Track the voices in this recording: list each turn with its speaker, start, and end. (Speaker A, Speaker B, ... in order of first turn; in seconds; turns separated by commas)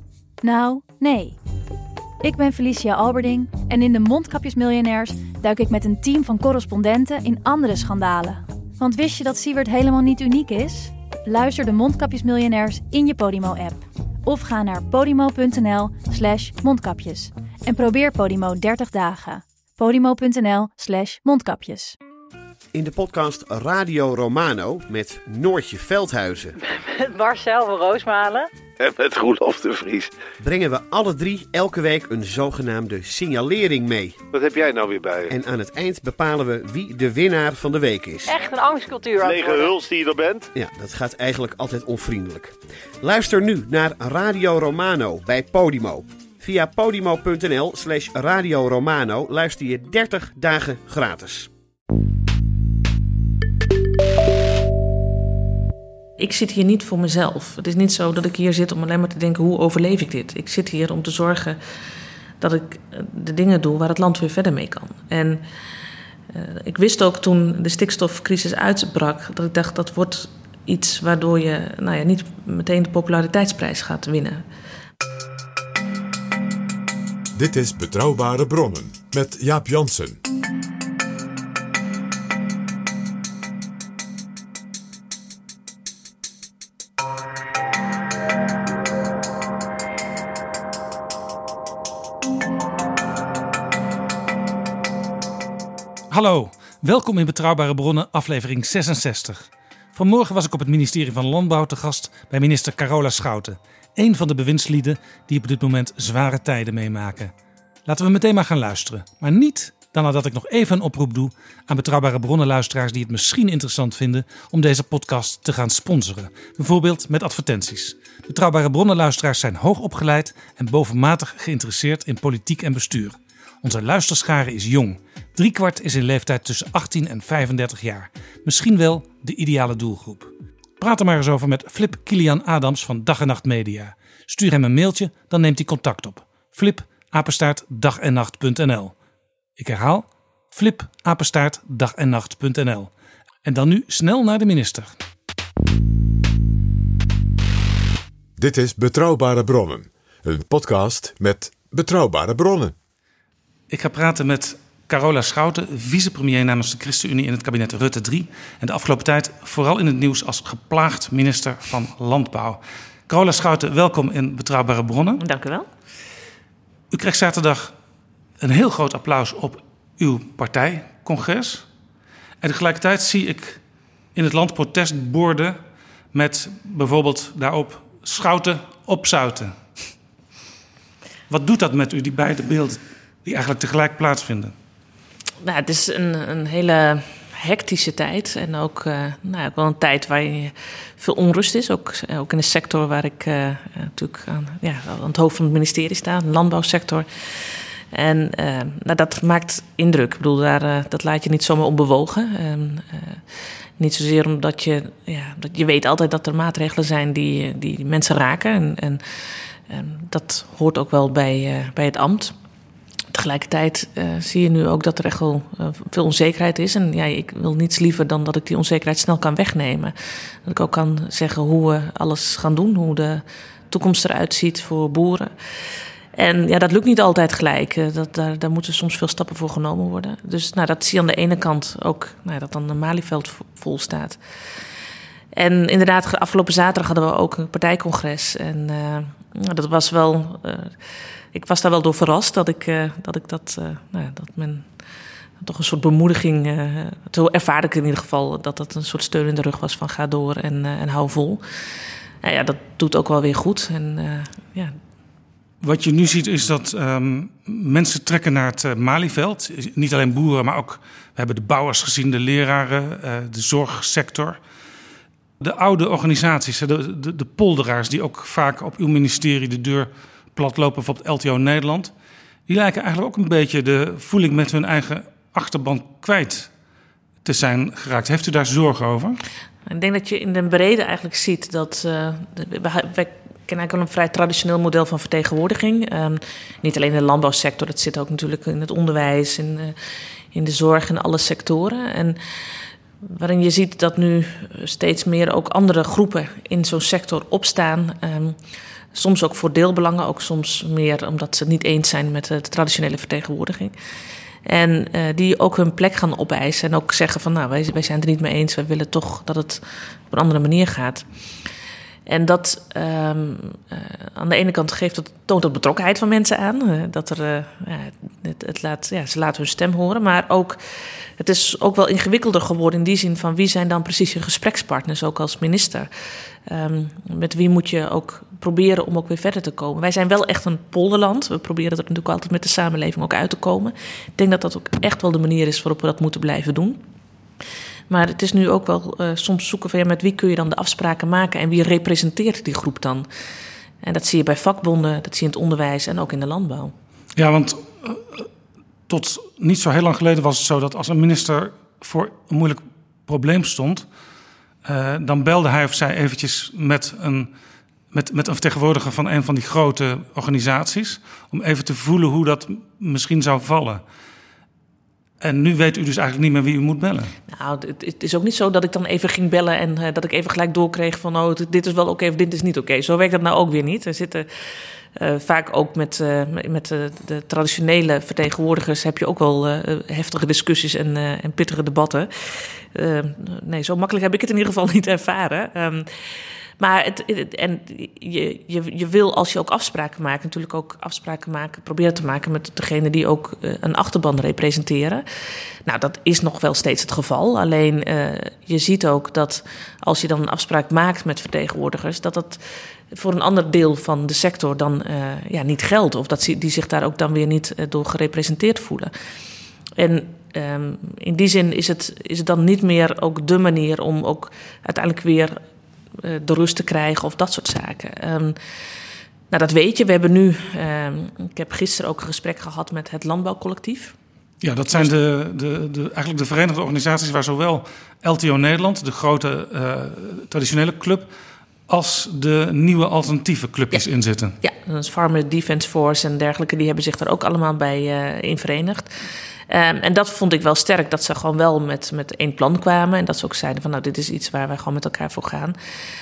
Speaker A: 0.4-1.4, Speaker A: 2.2-22.0, Speaker B: 22.7-26.5, Speaker C: 26.6-28.5, Speaker D: 28.8-30.1, Speaker B: 30.4-34.2, Speaker D: 34.3-35.3, Speaker B: 35.3-38.3, Speaker C: 38.3-39.8, Speaker D: 39.2-40.5, Speaker B: 40.5-51.5, Speaker E: 56.2-61.6, Speaker E: 62.4-65.4, Speaker E: 66.3-74.4, Speaker F: 77.3-80.2, Speaker G: 96.1-107.3, Speaker G: 107.9-138.9, Speaker G: 139.6-142.9, Speaker G: 143.4-145.0, Speaker F: 148.4-152.8, Speaker G: 153.7-165.2, Speaker E: 165.2-165.7, Speaker G: 166.9-167.7, Speaker G: 168.4-171.7, Speaker G: 172.4-173.6, Speaker G: 174.2-175.6, Speaker G: 176.1-179.6, Speaker G: 181.3-184.5, Speaker E: 185.4-197.1, Speaker E: 197.9-203.2, Speaker E: 203.8-209.0, Speaker E: 209.7-212.3, Speaker E: 213.1-219.9, Speaker E: 220.4-225.3, Speaker E: 226.2-234.2, Speaker E: 235.3-240.8, Speaker E: 241.3-244.7, Speaker E: 245.4-251.4, Speaker E: 252.2-254.8, Speaker G: 255.6-264.4, Speaker G: 265.4-271.9, Speaker G: 272.5-276.5, Speaker G: 277.2-279.2, Speaker E: 279.7-289.8, Speaker E: 290.3-292.2, Speaker E: 293.0-298.4, Speaker E: 298.9-303.7, Speaker E: 304.5-311.1, Speaker E: 312.1-320.6, Speaker E: 321.2-325.9, Speaker E: 326.5-336.8, Speaker E: 337.9-343.1, Speaker E: 343.8-346.7, Speaker G: 347.2-348.3, Speaker G: 348.9-353.9, Speaker G: 354.6-357.3, Speaker G: 357.9-363.8, Speaker G: 365.2-367.1, Speaker E: 367.3-374.3, Speaker E: 374.9-385.9, Speaker E: 386.6-395.0, Speaker E: 395.6-402.4, Speaker E: 402.9-408.9, Speaker E: 409.8-415.4, Speaker E: 416.0-418.4, Speaker E: 419.3-423.9, Speaker G: 424.4-431.1, Speaker G: 431.7-434.4, Speaker E: 434.4-438.9, Speaker E: 439.5-445.6